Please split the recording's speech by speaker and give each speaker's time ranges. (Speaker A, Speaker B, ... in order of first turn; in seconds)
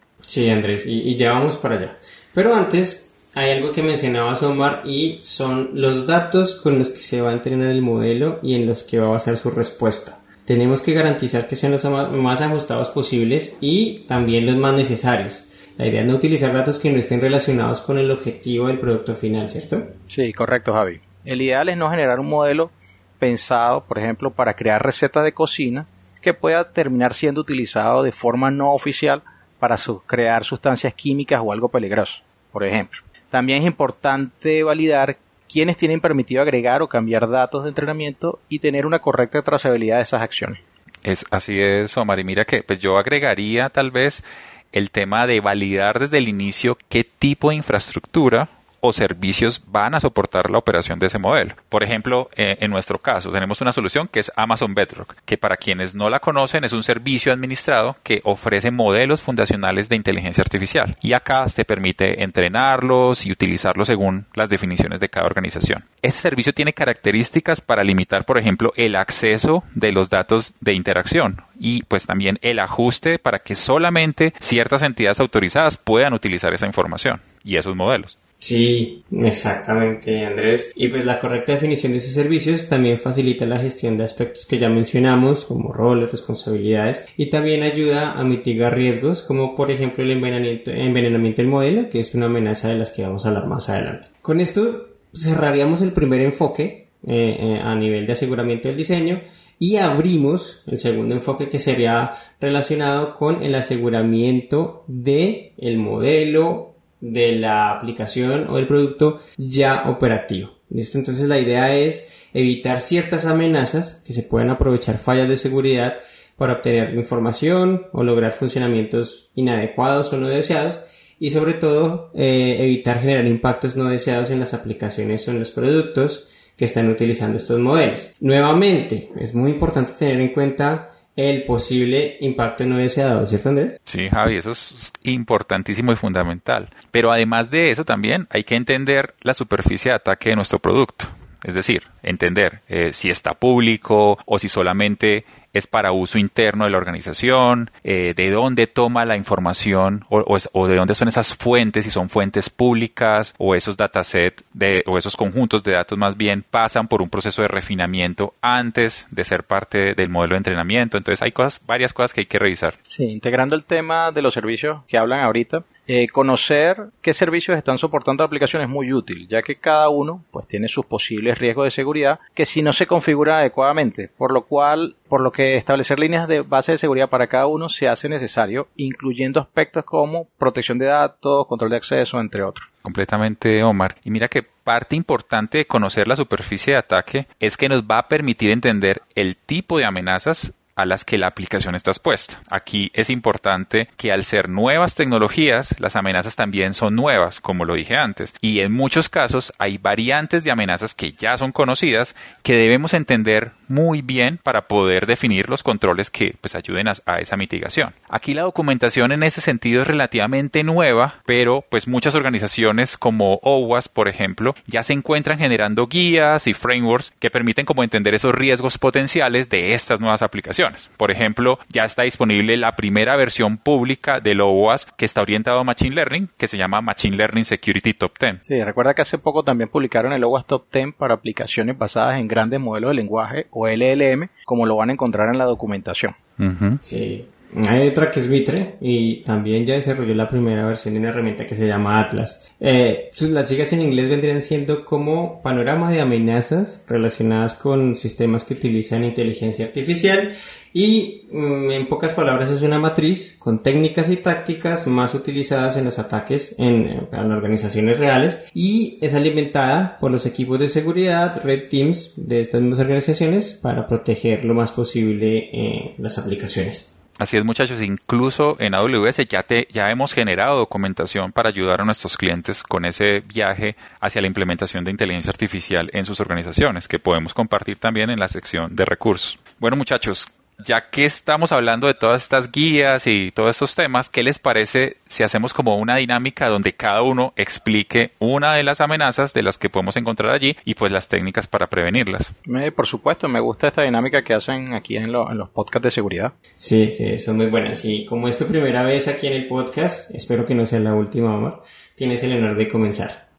Speaker A: 0.3-19.9, 78.4-133.8, 236.8-266.9, 296.6-303.2
Speaker B: 20.1-40.6, 162.9-182.7, 228.4-236.1, 292.4-296.3
Speaker C: 41.0-78.1, 133.8-162.8, 182.8-228.4, 236.4-236.8, 267.2-292.3